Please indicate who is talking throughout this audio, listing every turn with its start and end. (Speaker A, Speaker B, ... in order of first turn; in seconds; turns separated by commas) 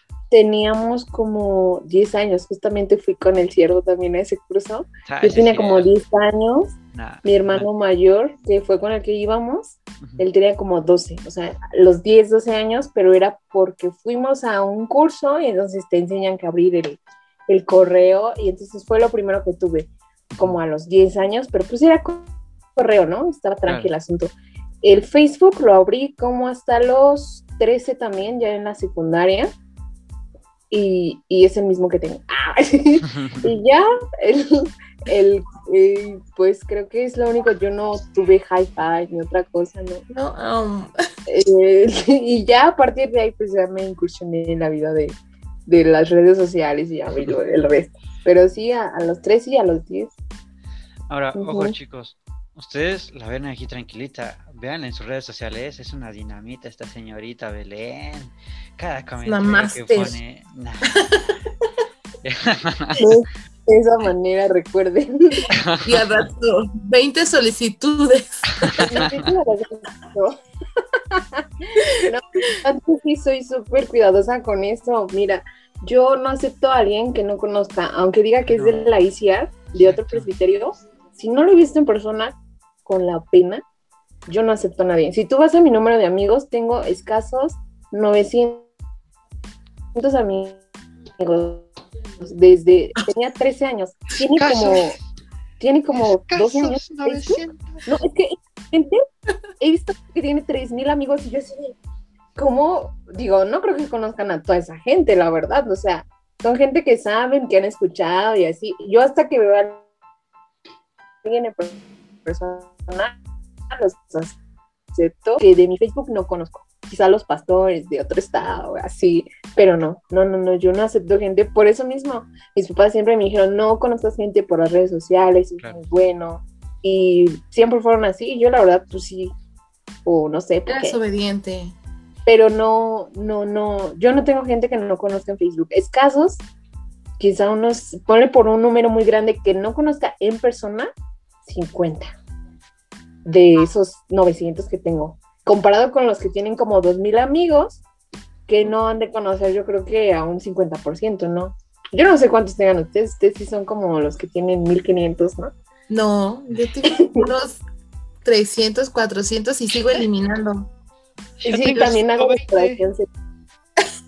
Speaker A: 0.3-29.5, Speaker B: 5.0-5.9, Speaker B: 6.9-7.7, Speaker B: 23.6-23.9, Speaker A: 30.7-40.0, Speaker B: 33.1-33.4, Speaker C: 40.1-40.9, Speaker A: 41.3-50.1, Speaker B: 51.1-61.1, Speaker A: 51.4-51.7, Speaker C: 59.2-60.2, Speaker C: 60.9-61.4, Speaker B: 62.2-63.0, Speaker A: 63.0-65.5, Speaker B: 65.5-65.9, Speaker C: 65.8-69.1, Speaker B: 68.6-69.1, Speaker A: 68.8-70.3, Speaker A: 70.9-83.6, Speaker B: 78.5-78.9, Speaker B: 79.8-80.3, Speaker A: 84.3-88.7, Speaker A: 89.9-90.6, Speaker A: 91.2-95.0, Speaker B: 94.4-94.8, Speaker A: 95.6-99.0, Speaker B: 95.9-97.9, Speaker A: 99.6-101.8, Speaker A: 102.3-109.8, Speaker A: 111.2-113.2, Speaker A: 113.7-114.4, Speaker A: 114.9-129.3, Speaker A: 130.0-131.0, Speaker C: 130.7-131.7, Speaker A: 132.2-136.4, Speaker A: 137.2-140.9, Speaker A: 141.4-142.1, Speaker A: 143.2-147.8, Speaker A: 148.5-155.5, Speaker C: 155.9-157.6, Speaker C: 158.2-160.7, Speaker B: 161.4-162.8, Speaker A: 161.4-163.1